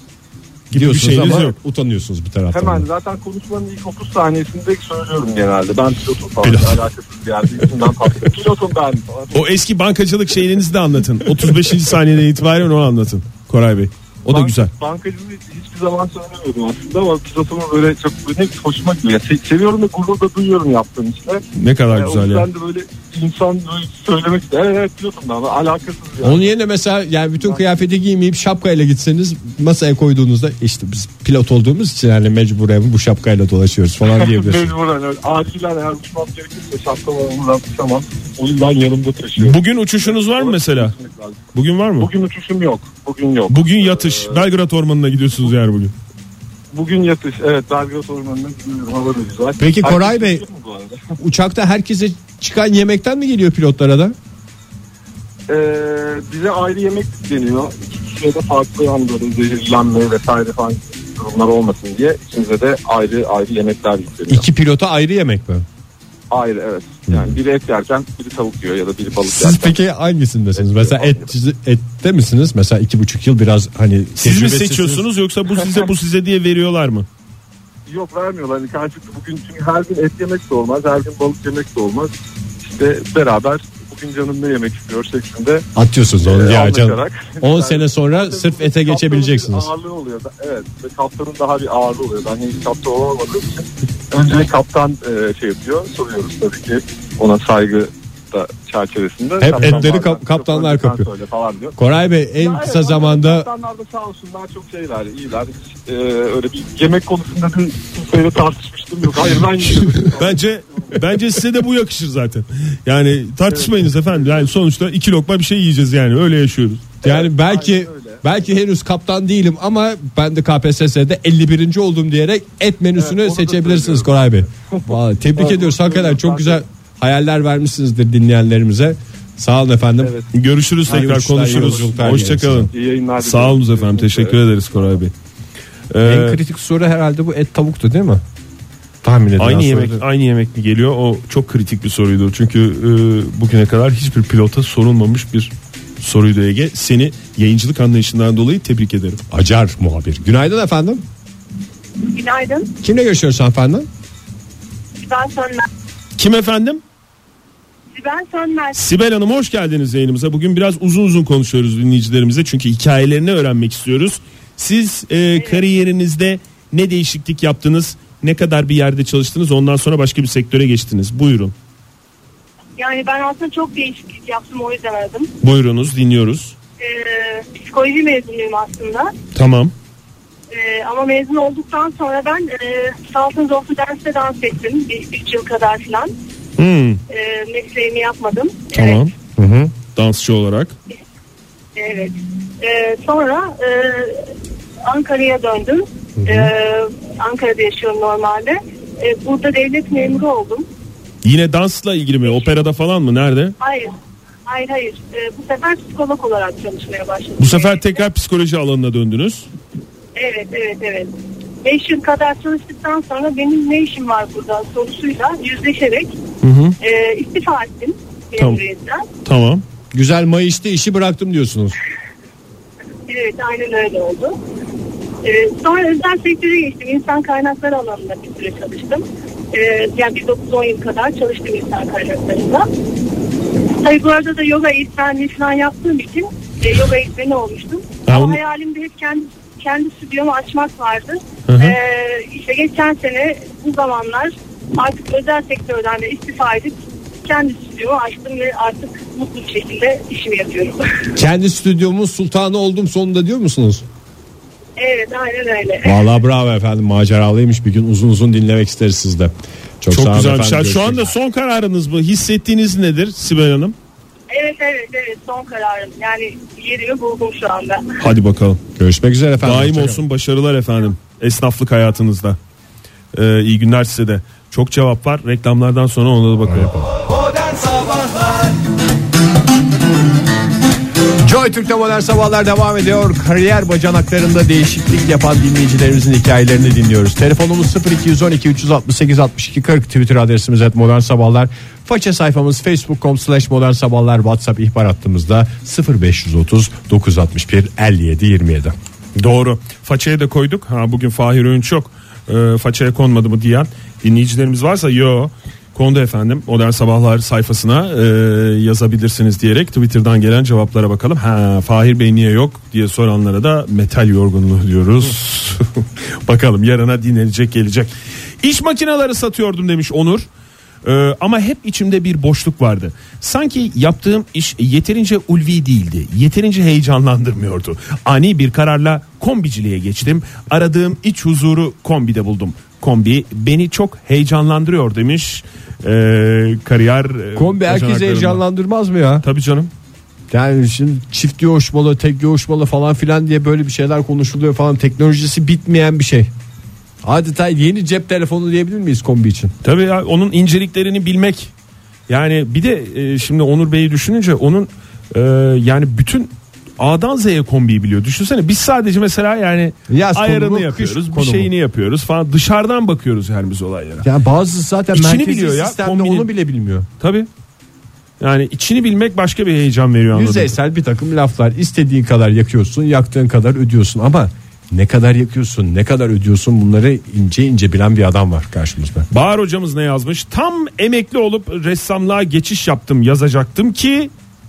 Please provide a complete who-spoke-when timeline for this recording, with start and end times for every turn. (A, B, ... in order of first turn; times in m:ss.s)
0:00.7-0:01.5 A
0:00.7-0:02.8 B
0:02.5-0:09.5 C
0:06.4-0:06.7 A
0:09.3-0:14.7 A
0:14.3-0:26.5 C
0:21.5-0:22.5 A
0:26.2-0:34.7 B
0:34.1-0:41.4 C
0:39.4-0:40.9 A
0:41.5-0:42.1 A
0:42.0-0:44.4 C
0:43.5-0:45.9 A
0:46.7-0:51.1 C
0:49.6-0:50.4 B
0:51.2-0:54.2 B
0:55.5-1:04.4 C
1:04.3-1:05.6 B
1:06.3-1:09.7 C
1:07.1-1:07.4 B
1:09.2-1:15.0 B
1:10.6-1:11.3 C
1:14.2-1:17.0 A
1:17.9-1:25.7 C
1:25.7-1:29.7 B
1:26.2-1:41.8 C
1:39.4-1:41.0 B
1:41.8-1:43.5 B
1:42.4-1:51.0 C
1:50.0-1:56.9 A
1:53.5-1:54.4 C
1:57.0-1:58.4 C
1:57.0-2:10.1 B
2:03.0-2:06.6 C
2:10.0-2:10.3 C
2:10.3-2:15.1 A
2:10.8-2:12.7 B
2:11.5-2:15.0 C
2:15.9-2:16.4 A
2:16.0-2:18.2 B
2:19.0-2:20.0 B
2:19.4-2:29.2 A
2:29.3-2:31.0 B
2:32.0-2:32.7 D
2:32.8-2:33.9 B
2:35.0-2:35.7 D
2:36.2-2:36.8 A
2:37.9-2:38.8 D
2:38.7-2:51.5 A
2:52.8-2:55.3 D
2:55.4-2:56.5 A
2:56.8-2:59.1 D
2:59.3-2:59.7 A
3:00.5-3:06.1 D
3:06.6-3:07.0 A
3:07.1-3:09.1 D
3:08.7-3:09.1 A
3:09.4-3:09.7 B
3:09.9-3:10.7 A
3:11.8-3:14.3 D
3:14.8-3:20.7 D
3:16.2-3:16.5 B
3:21.2-3:23.5 A
3:23.6-3:23.9 D
3:24.4-3:28.0 D
3:27.4-3:29.5 A
3:30.1-3:31.1 D
3:31.6-3:36.2 D
3:36.4-3:36.8 A
3:36.8-3:39.1 D
3:39.2-3:39.6 A
3:39.9-3:41.8 B
3:43.1-3:44.4 D
3:45.2-3:52.7 D
3:53.8-4:11.0 D
3:58.1-3:58.4 A
4:01.5-4:01.8 A
4:11.2-4:13.8 B
4:14.8-4:16.0 D
4:15.8-4:21.1 B
4:19.9-4:23.7 A
4:24.3-4:28.0 D
4:28.0-4:28.6 A
4:28.8-4:30.0 B
4:29.4-4:32.4 A
4:33.1-4:36.7 A
4:36.4-4:36.9 B
4:41.2-4:58.7 B
4:59.2-5:20.3 A
5:20.8-5:38.4 A
5:37.3-5:39.2 B
5:39.2-5:39.7 A
5:40.3-5:46.3 B
5:47.0-5:49.5 B
5:49.6-5:51.5 A
5:52.1-6:04.1 A
5:59.9-6:01.5 B
6:04.0-6:06.9 B
6:04.9-6:06.3 A
6:07.0-6:07.3 A
6:08.2-6:10.5 A
6:10.1-6:19.1 B
6:19.1-6:24.1 A